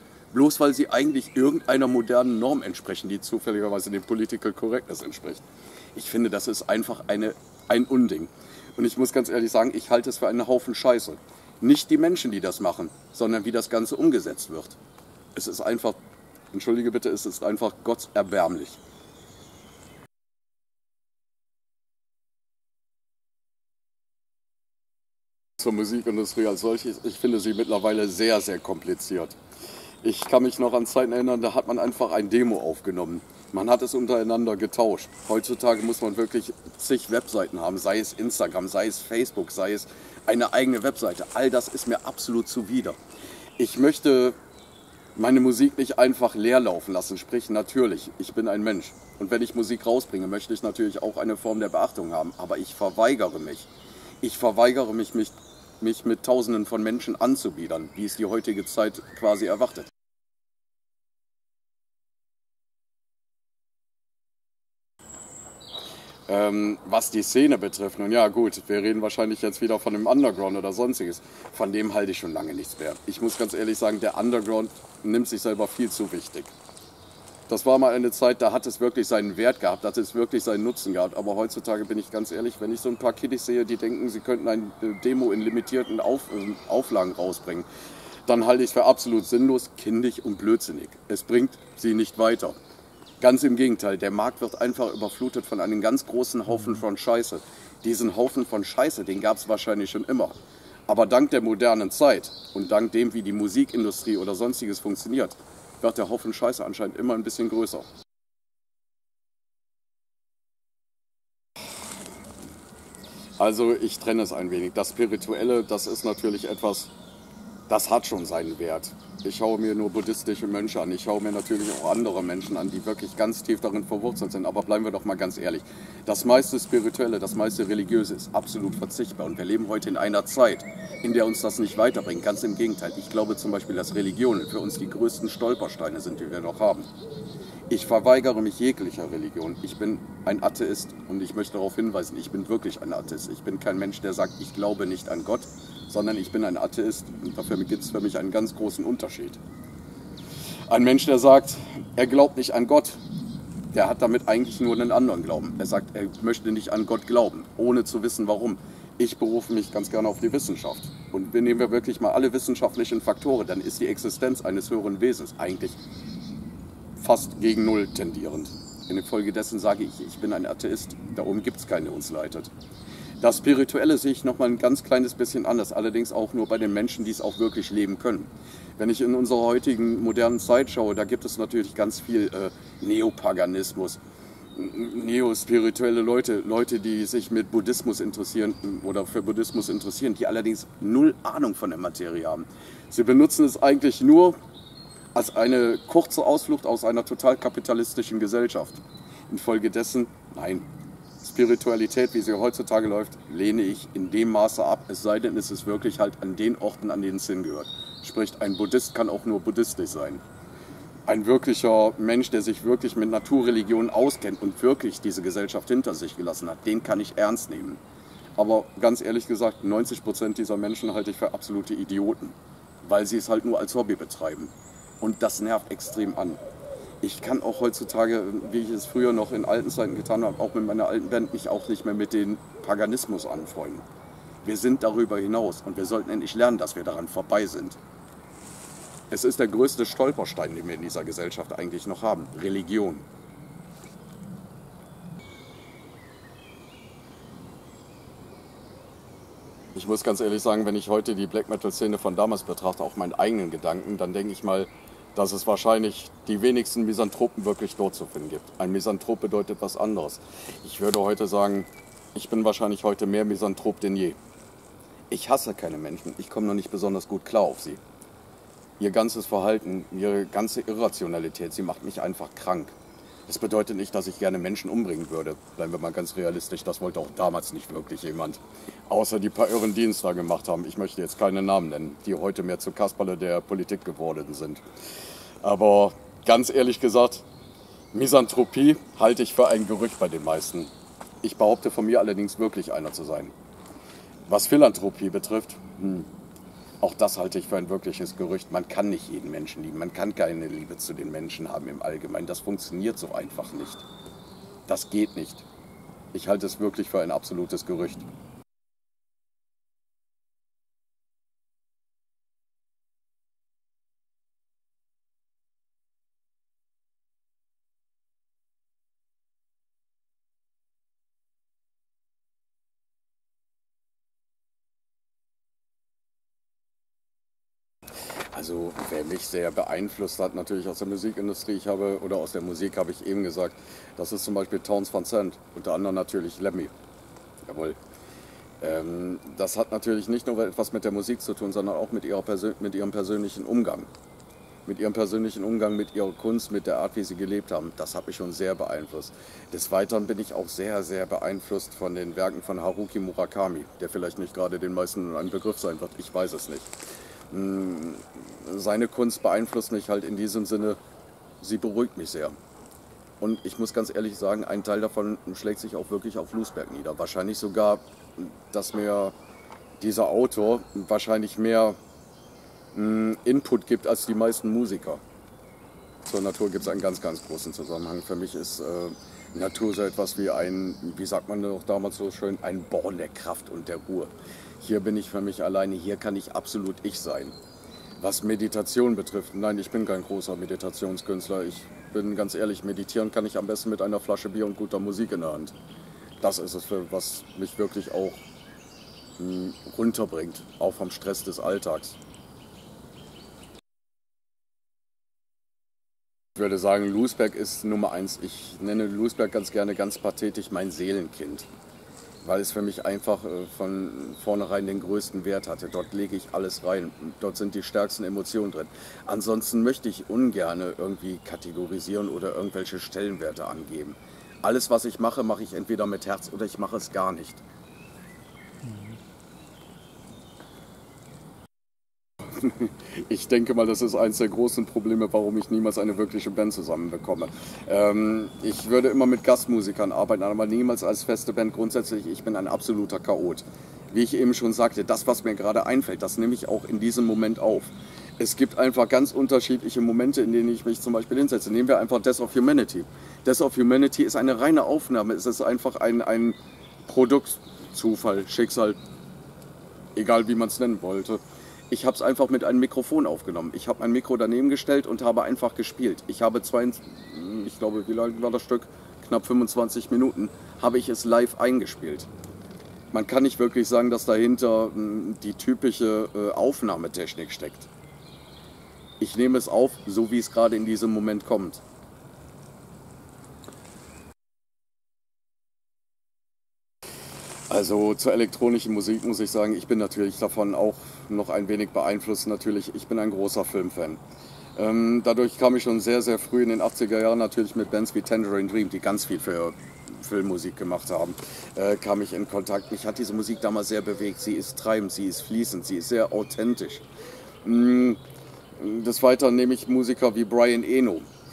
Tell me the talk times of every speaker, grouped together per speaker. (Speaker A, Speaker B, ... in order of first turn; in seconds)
Speaker A: 0.3-5.4, 5.9-14.8, 15.3-16.0, 16.5-18.8, 25.6-29.4, 30.0-43.0, 43.6-44.4, 45.1-53.7, 54.2-59.9, 66.3-76.5, 77.5-87.7, 88.2-92.6, 93.2-100.3, 100.9-107.9, 113.4-116.9, 117.7-136.9, 137.7-149.4, 150.7-153.0, 153.7-165.8, 167.0-172.5, 173.2-184.0, 184.5-194.4, 195.1-200.7, 201.2-210.2, 211.1-217.8, 218.4-226.4, 227.0-233.8, 234.4-237.8, 239.1-243.0, 249.7-264.2, 265.1-267.8, 268.8-272.7, 273.3-284.6, 285.4-287.2, 287.9-290.7, 291.2-293.3, 294.3-296.1, 296.8-303.9, 304.6-305.4, 306.1-308.1, 328.3-336.7, 337.4-337.8, 338.6-343.9, 344.6-356.7, 357.3-360.8, 361.4-362.3, 363.2-369.1, 369.8-371.8, 372.7-375.0, 376.0-387.3, 388.0-395.6, 396.2-398.2, 399.2-402.0, 406.4-411.5, 412.2-427.4, 432.2-458.8, 459.9-472.1, 472.9-477.7, 479.0-481.6, 487.5-494.0, 494.6-506.8, 507.4-508.0, 508.6-511.1